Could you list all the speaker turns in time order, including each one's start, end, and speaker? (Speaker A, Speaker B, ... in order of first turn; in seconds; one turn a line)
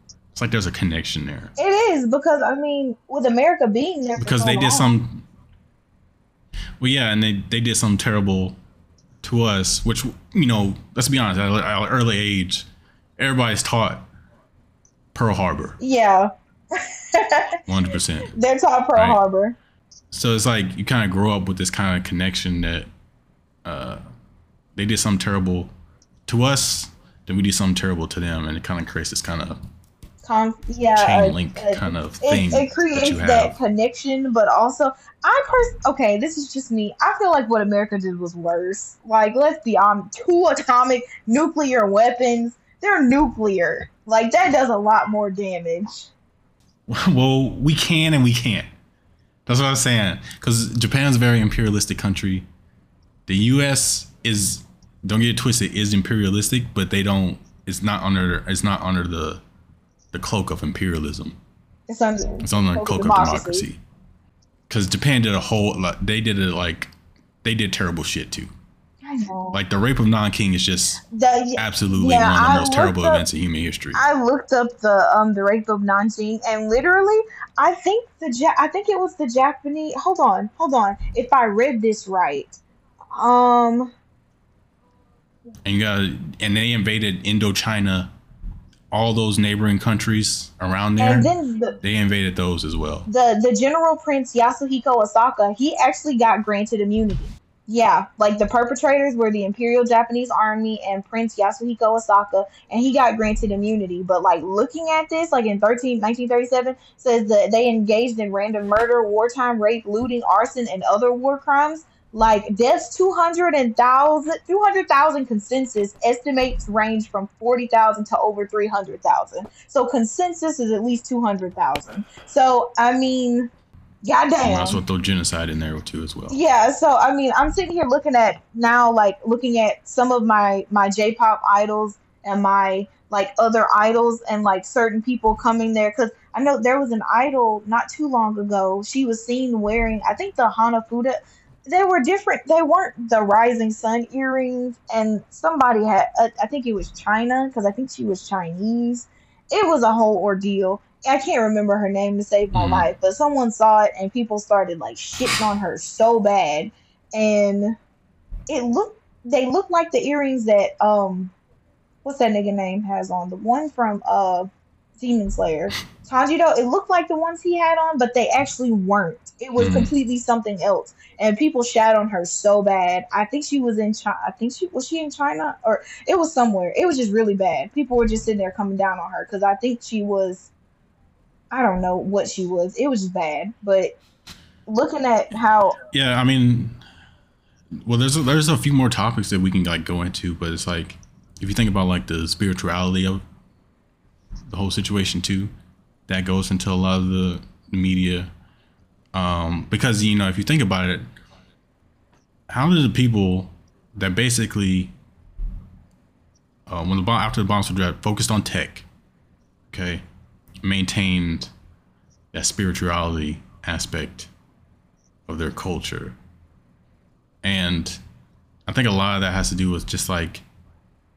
Speaker A: 0.3-1.5
Speaker B: 1.6-4.9
Speaker A: 4.2-5.2
Speaker A: 6.8-8.6
Speaker A: 9.2-12.7
Speaker A: 13.2-14.1
Speaker A: 15.1-15.8
Speaker B: 15.8-17.6
Speaker A: 17.7-18.3
Speaker B: 18.3-19.6
Speaker A: 20.1-22.9
Speaker A: 23.6-24.0
Speaker A: 24.8-25.7
Speaker A: 26.3-29.6
Speaker B: 30.2-46.1
Speaker A: 30.9-33.5
Speaker A: 46.9-48.7
Speaker A: 49.5-52.5
Speaker A: 53.3-59.4
Speaker A: 60.1-61.4
Speaker B: 61.9-63.7
Speaker A: 62.4-63.8
Speaker A: 64.7-66.9
Speaker A: 67.4-68.5
Speaker B: 69.0-69.6
Speaker A: 69.5-71.0
Speaker B: 71.1-73.2
Speaker A: 71.6-74.0
Speaker B: 73.9-82.6
Speaker B: 83.2-83.9
Speaker A: 85.7-88.1
Speaker A: 88.9-91.3
Speaker B: 91.0-91.8
Speaker A: 91.8-93.1
Speaker B: 93.1-123.5
Speaker B: 124.0-124.8
Speaker A: 124.4-126.4
Speaker B: 126.3-157.8
Speaker A: 152.5-152.9
Speaker B: 158.5-161.3
Speaker B: 162.0-180.5
Speaker A: 169.6-169.9
Speaker B: 181.5-184.0
Speaker B: 184.7-185.8
Speaker A: 185.9-186.8
Speaker A: 187.8-193.2
Speaker A: 194.5-195.5
Speaker A: 196.1-198.3
Speaker A: 199.1-201.1
Speaker A: 202.5-204.9
Speaker A: 206.7-208.8
Speaker A: 209.7-210.0
Speaker A: 210.6-211.5
Speaker A: 212.3-214.3
Speaker A: 215.3-216.2
Speaker A: 217.4-218.0
Speaker A: 218.7-220.4